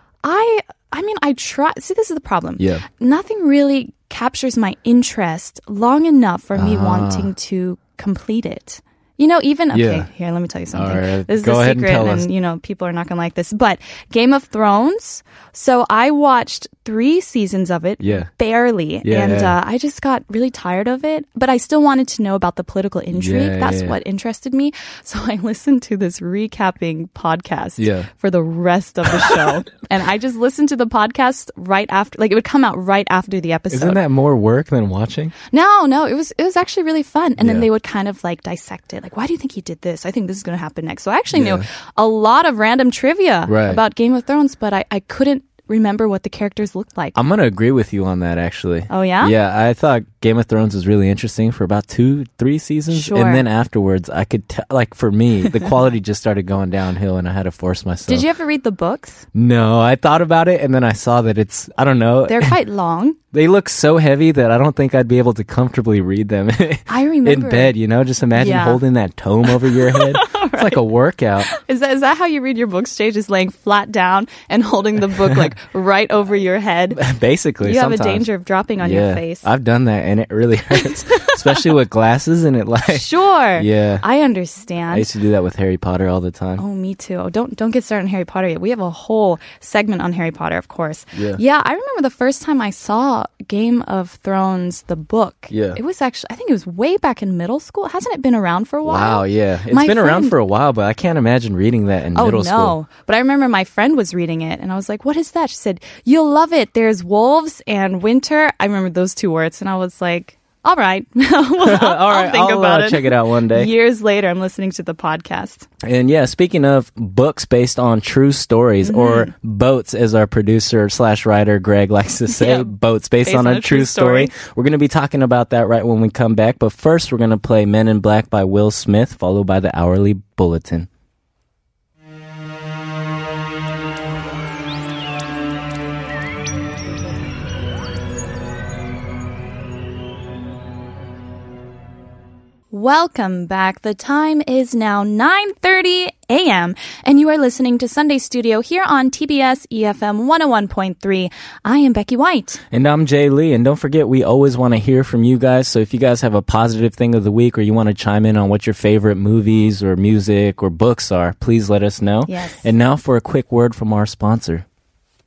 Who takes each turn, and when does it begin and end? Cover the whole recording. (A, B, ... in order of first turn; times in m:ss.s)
0:00.2-0:34.0 A
0:02.6-0:02.8 B
0:06.5-0:07.3 B
0:09.7-0:10.1 B
0:10.7-0:12.3 B
0:18.0-0:18.3 B
0:19.0-0:19.6 B
0:23.1-0:24.0 B
0:27.8-0:28.1 B
0:33.7-0:35.3 B
0:35.5-0:47.2 A
0:37.4-0:37.6 B
0:41.3-0:41.6 B
0:43.5-0:43.8 B
0:47.1-0:58.2 B
0:48.9-0:49.3 A
0:52.9-0:53.4 A
0:58.1-0:59.2 A
0:59.3-1:02.6 B
1:02.3-1:03.2 A
1:03.3-1:11.5 B
1:06.9-1:07.7 A
1:08.3-1:08.8 A
1:09.5-1:10.9 A
1:11.5-1:17.0 A
1:15.2-1:15.5 B
1:16.9-1:18.3 B
1:17.6-1:19.4 A
1:18.8-1:24.0 B
1:20.7-1:21.7 A
1:22.9-1:25.1 A
1:24.9-1:26.6 B
1:26.6-1:40.4 A
1:31.1-1:31.4 B
1:35.5-1:35.8 B
1:38.8-1:42.8 B
1:42.1-1:55.7 A
1:51.6-1:53.7 B
1:55.8-2:10.9 B
1:58.8-1:59.3 A
2:02.3-2:02.7 A
2:03.2-2:04.3 A
2:22.7-2:32.6 A
2:32.7-2:44.6 B
2:42.2-2:42.6 A